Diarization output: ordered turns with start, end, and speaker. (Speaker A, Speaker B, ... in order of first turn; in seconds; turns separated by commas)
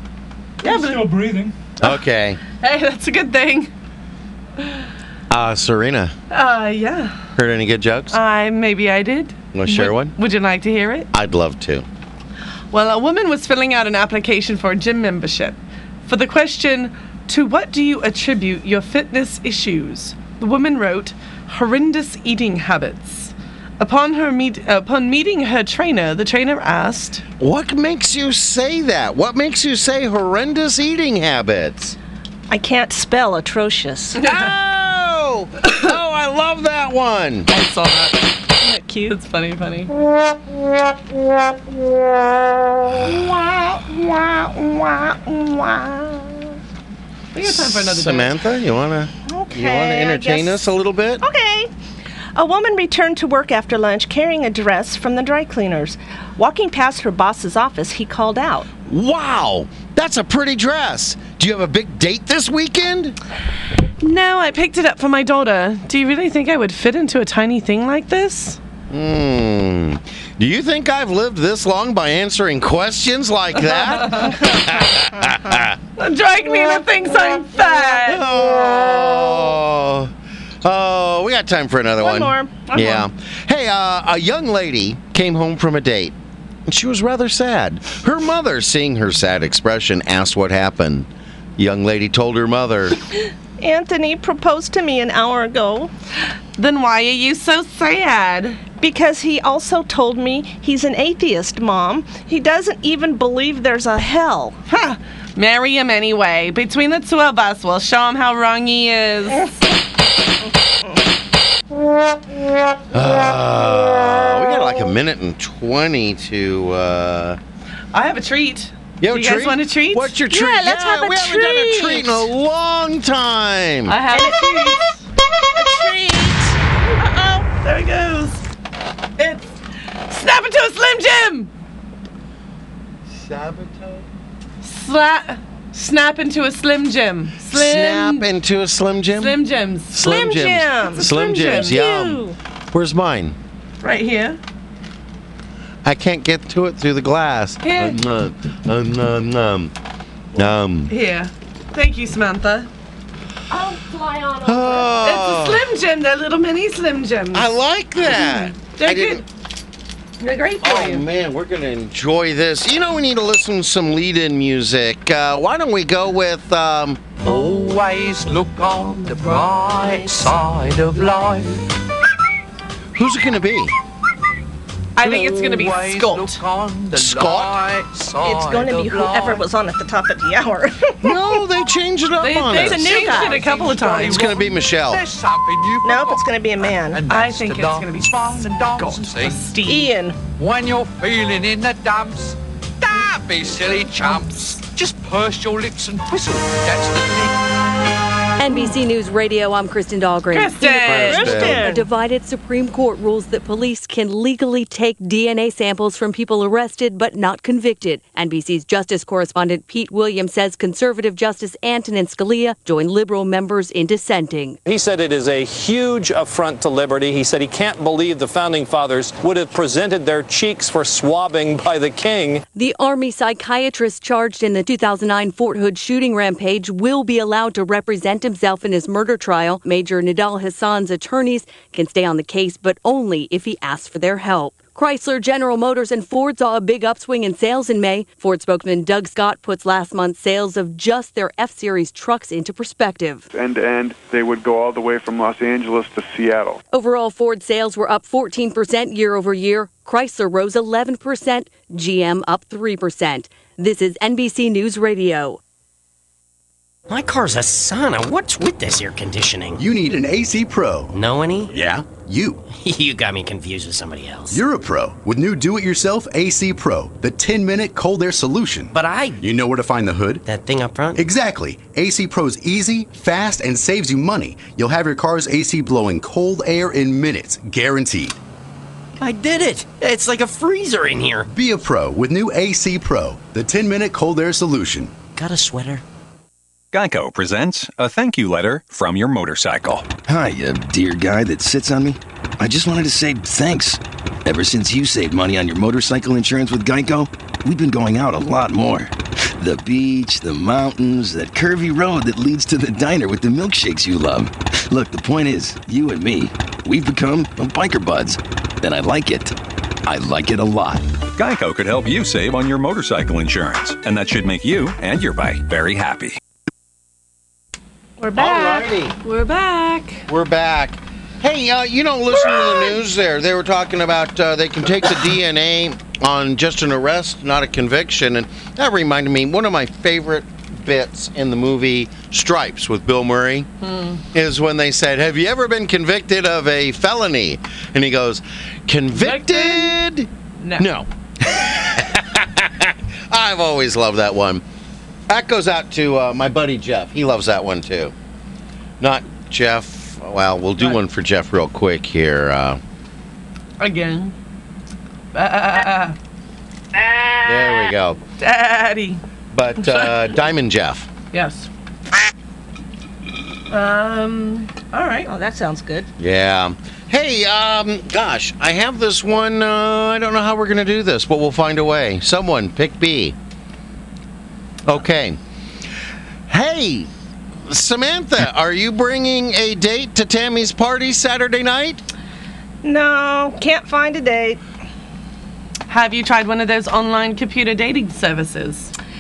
Speaker A: 0.6-1.5, Speaker B: 1.8-2.4, Speaker A: 2.6-3.7, Speaker B: 5.3-6.1, Speaker A: 6.3-7.2, Speaker B: 7.4-8.2, Speaker A: 8.1-11.1, Speaker B: 9.5-10.1, Speaker B: 11.1-11.9, Speaker A: 12.7-27.2, Speaker B: 27.4-31.9, Speaker C: 32.5-34.2, Speaker B: 34.2-37.5, Speaker A: 37.5-38.3, Speaker C: 38.6-39.1, Speaker A: 39.1-39.9, Speaker C: 43.0-46.5, Speaker A: 47.3-48.3, Speaker B: 47.4-51.2, Speaker C: 49.3-50.7, Speaker C: 51.2-51.7, Speaker C: 52.4-58.7, Speaker B: 58.9-63.2, Speaker A: 64.0-68.6, Speaker B: 68.9-75.8, Speaker A: 73.6-74.4, Speaker A: 76.0-78.2, Speaker B: 77.9-80.1, Speaker B: 80.6-86.1, Speaker C: 82.0-82.7, Speaker A: 82.7-83.0, Speaker B: 86.7-93.0, Speaker C: 93.6-95.9, Speaker A: 96.6-98.6, Speaker C: 98.8-104.6, Speaker A: 104.7-109.6, Speaker B: 112.9-117.4, Speaker A: 117.9-120.1, Speaker B: 119.0-124.0, Speaker C: 120.3-122.2, Speaker A: 123.9-125.0, Speaker C: 124.1-124.7, Speaker C: 125.5-127.5, Speaker A: 127.5-128.4, Speaker A: 129.2-129.5, Speaker A: 130.1-131.5, Speaker B: 133.1-134.1, Speaker A: 134.6-138.3, Speaker B: 137.5-139.4, Speaker A: 139.1-140.2, Speaker B: 139.9-143.4, Speaker C: 140.0-142.4, Speaker A: 141.0-141.8, Speaker A: 143.8-144.4, Speaker B: 145.8-149.7, Speaker A: 147.6-148.0, Speaker B: 150.3-150.9, Speaker A: 150.9-152.7, Speaker C: 153.5-154.9, Speaker B: 154.4-155.7, Speaker A: 155.0-157.5, Speaker B: 157.3-159.2, Speaker A: 158.1-159.2, Speaker A: 160.2-161.0, Speaker B: 160.6-167.1, Speaker D: 167.2-171.6, Speaker B: 172.9-173.7, Speaker A: 174.9-176.4, Speaker D: 175.0-179.4, Speaker B: 176.9-177.6, Speaker C: 178.2-181.4, Speaker B: 181.0-183.0, Speaker A: 182.2-184.3, Speaker C: 182.5-183.5, Speaker D: 183.0-189.5, Speaker B: 184.0-185.0, Speaker C: 185.8-187.0, Speaker A: 187.1-189.9, Speaker C: 189.6-190.2, Speaker D: 190.4-197.3, Speaker E: 198.4-214.6, Speaker A: 200.3-201.4, Speaker B: 200.8-201.7, Speaker C: 201.0-201.9, Speaker F: 214.6-222.4, Speaker E: 222.5-243.3, Speaker G: 243.3-246.6, Speaker E: 246.7-255.4, Speaker H: 256.9-259.6, Speaker I: 259.6-260.9, Speaker H: 260.9-261.5, Speaker I: 261.5-262.4, Speaker H: 262.5-264.4, Speaker I: 264.3-270.2, Speaker H: 268.7-269.2, Speaker H: 270.2-271.0, Speaker I: 270.9-278.1, Speaker H: 279.0-281.3, Speaker I: 281.3-284.9, Speaker H: 285.1-285.8, Speaker J: 286.7-289.9, Speaker K: 290.1-309.4, Speaker K: 309.9-310.9, Speaker J: 311.2-316.2, Speaker C: 318.0-318.5, Speaker B: 318.1-318.9, Speaker A: 318.1-320.0, Speaker B: 320.1-333.5, Speaker A: 333.6-334.0, Speaker B: 334.1-344.4, Speaker A: 338.9-339.8, Speaker A: 340.4-340.7, Speaker B: 345.1-347.9, Speaker B: 348.8-352.6, Speaker A: 353.6-354.1, Speaker A: 355.1-355.9, Speaker B: 357.2-358.0, Speaker A: 358.2-359.0, Speaker B: 359.3-360.9, Speaker A: 359.6-359.9, Speaker A: 361.1-361.5, Speaker A: 363.5-365.1, Speaker C: 365.1-365.9, Speaker B: 366.0-373.1, Speaker B: 374.6-375.2, Speaker B: 376.3-376.9, Speaker B: 377.5-381.8, Speaker C: 382.6-384.4, Speaker A: 385.7-388.7